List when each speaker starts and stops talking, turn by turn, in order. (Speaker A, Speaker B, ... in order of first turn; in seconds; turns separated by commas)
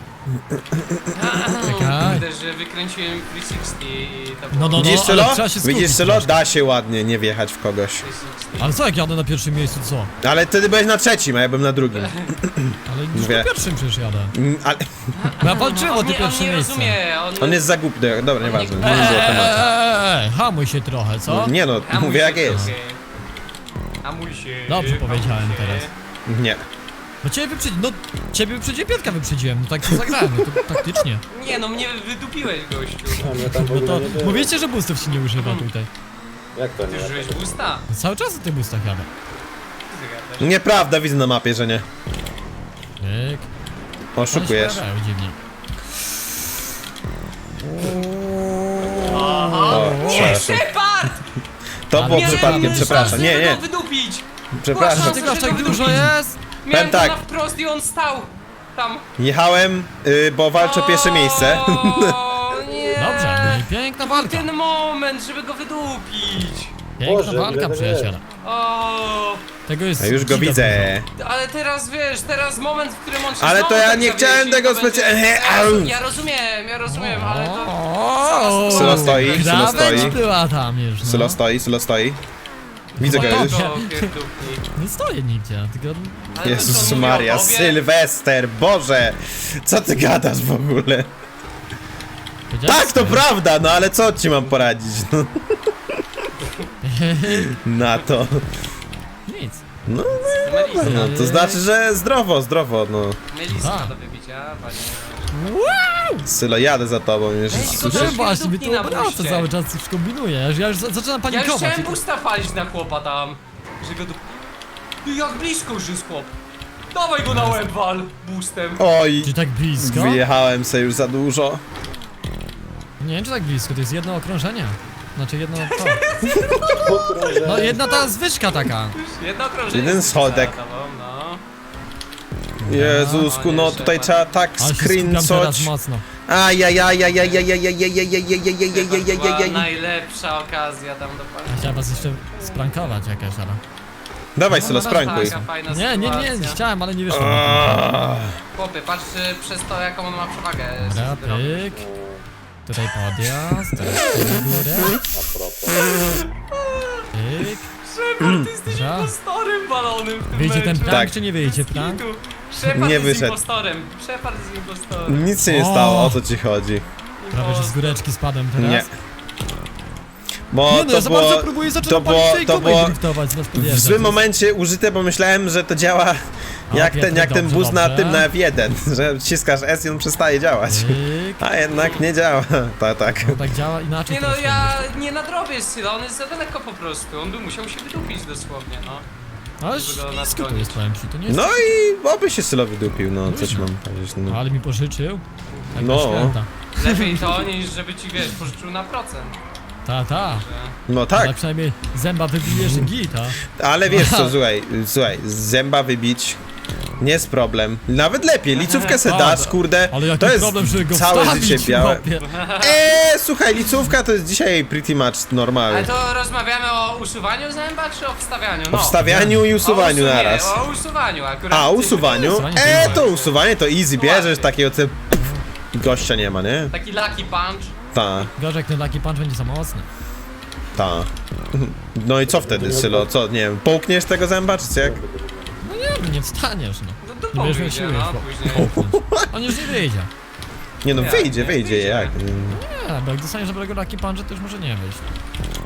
Speaker A: 1.1-5.2, Speaker B: 1.6-2.2, Speaker B: 4.5-6.4, Speaker C: 4.8-8.0, Speaker A: 8.0-8.7, Speaker B: 8.6-10.1, Speaker C: 10.2-13.5, Speaker A: 11.9-12.3, Speaker B: 12.9-14.3, Speaker C: 14.3-15.3, Speaker A: 15.2-17.6, Speaker B: 15.4-17.0, Speaker C: 17.4-19.7, Speaker A: 18.4-19.6, Speaker B: 18.8-21.5, Speaker C: 21.3-22.7, Speaker A: 21.8-23.0, Speaker A: 24.0-25.9, Speaker B: 24.7-25.9, Speaker C: 26.3-26.6, Speaker B: 27.2-31.2, Speaker A: 31.3-33.3, Speaker D: 33.2-34.5, Speaker B: 33.2-35.9, Speaker A: 35.4-35.7, Speaker D: 36.5-37.5, Speaker A: 36.9-37.9, Speaker B: 37.9-39.1, Speaker A: 39.9-40.5, Speaker C: 40.4-41.8, Speaker B: 43.0-43.5, Speaker C: 44.1-44.8, Speaker B: 44.3-45.4, Speaker C: 47.7-50.6, Speaker A: 49.0-51.2, Speaker B: 49.5-50.6, Speaker C: 51.9-53.6, Speaker B: 51.9-53.2, Speaker A: 52.0-56.1, Speaker C: 54.5-56.1, Speaker B: 54.9-56.4, Speaker A: 56.6-59.0, Speaker C: 56.7-57.2, Speaker C: 59.2-62.2, Speaker A: 60.5-66.7, Speaker B: 63.0-64.5, Speaker B: 67.0-68.2, Speaker D: 67.0-68.2, Speaker A: 68.4-69.4, Speaker B: 69.7-70.9, Speaker C: 70.0-71.1, Speaker A: 71.2-80.2, Speaker C: 73.4-76.0, Speaker B: 76.9-81.4, Speaker C: 78.7-80.2, Speaker C: 81.0-82.2, Speaker B: 83.0-83.9, Speaker C: 83.0-83.6, Speaker A: 83.0-84.7, Speaker B: 84.7-86.9, Speaker A: 86.3-87.8, Speaker C: 86.4-91.1, Speaker B: 92.5-93.2, Speaker C: 92.7-95.3, Speaker B: 96.8-97.5, Speaker C: 97.5-98.4, Speaker B: 99.3-99.6, Speaker C: 99.9-103.2, Speaker B: 100.3-101.6, Speaker A: 100.4-101.2, Speaker A: 103.3-105.3, Speaker B: 103.5-103.9, Speaker B: 105.3-106.2, Speaker C: 106.2-108.2, Speaker A: 107.5-109.5, Speaker B: 107.7-112.0, Speaker A: 111.3-114.2, Speaker A: 115.0-116.3, Speaker A: 116.9-118.8, Speaker B: 117.3-117.7, Speaker C: 118.8-121.6, Speaker B: 119.2-120.2, Speaker B: 123.0-126.0, Speaker A: 125.6-128.1, Speaker D: 126.7-128.0, Speaker B: 127.4-128.9, Speaker A: 128.9-131.4, Speaker C: 129.7-130.6, Speaker C: 132.6-135.7, Speaker B: 132.7-133.3, Speaker A: 133.2-134.2, Speaker B: 134.6-136.0, Speaker C: 136.3-139.7, Speaker A: 138.7-142.8, Speaker B: 141.5-143.6, Speaker C: 144.3-145.3, Speaker B: 144.5-147.9, Speaker A: 145.0-146.6, Speaker C: 147.1-148.3, Speaker A: 148.5-151.7, Speaker B: 150.8-151.8, Speaker D: 151.7-152.2, Speaker B: 152.7-155.0, Speaker D: 155.0-155.9, Speaker A: 155.9-157.0, Speaker B: 157.1-157.7, Speaker A: 157.8-165.3, Speaker C: 158.2-158.5, Speaker B: 158.7-159.1, Speaker B: 160.3-162.0, Speaker C: 160.9-161.1, Speaker C: 162.6-163.4, Speaker C: 165.1-166.8, Speaker B: 165.4-166.2, Speaker A: 167.2-168.0, Speaker B: 167.3-168.9, Speaker C: 168.6-168.9, Speaker C: 170.5-173.0, Speaker B: 170.7-174.2, Speaker C: 173.5-176.2, Speaker C: 176.7-183.4, Speaker B: 176.7-178.3, Speaker B: 180.7-181.4, Speaker A: 181.7-182.0, Speaker B: 183.2-184.8, Speaker A: 184.1-189.0, Speaker B: 189.6-191.6, Speaker A: 189.7-190.8, Speaker C: 191.3-194.4, Speaker B: 193.2-193.7, Speaker B: 194.2-195.2, Speaker A: 195.5-195.8, Speaker B: 195.7-197.2, Speaker C: 195.8-196.4, Speaker A: 196.8-199.3, Speaker B: 199.8-200.4, Speaker A: 200.1-200.8, Speaker C: 200.9-201.4, Speaker B: 201.1-204.3, Speaker C: 202.5-202.9, Speaker C: 203.4-206.4, Speaker C: 207.0-212.0, Speaker A: 208.5-209.0, Speaker B: 209.0-212.2, Speaker A: 212.2-212.8, Speaker C: 212.6-215.9, Speaker A: 215.7-219.0, Speaker C: 218.7-220.6, Speaker B: 219.0-219.5, Speaker A: 219.6-223.4, Speaker C: 221.5-226.7, Speaker B: 222.3-223.0, Speaker A: 223.9-224.5, Speaker B: 225.1-225.4, Speaker A: 226.7-227.7, Speaker C: 227.9-228.3, Speaker B: 228.4-229.9, Speaker C: 230.7-235.0, Speaker D: 232.2-233.1, Speaker D: 234.8-235.6, Speaker B: 235.6-240.1, Speaker A: 237.0-238.7, Speaker C: 238.5-239.5, Speaker C: 240.8-242.6, Speaker A: 240.9-242.2, Speaker B: 242.5-245.1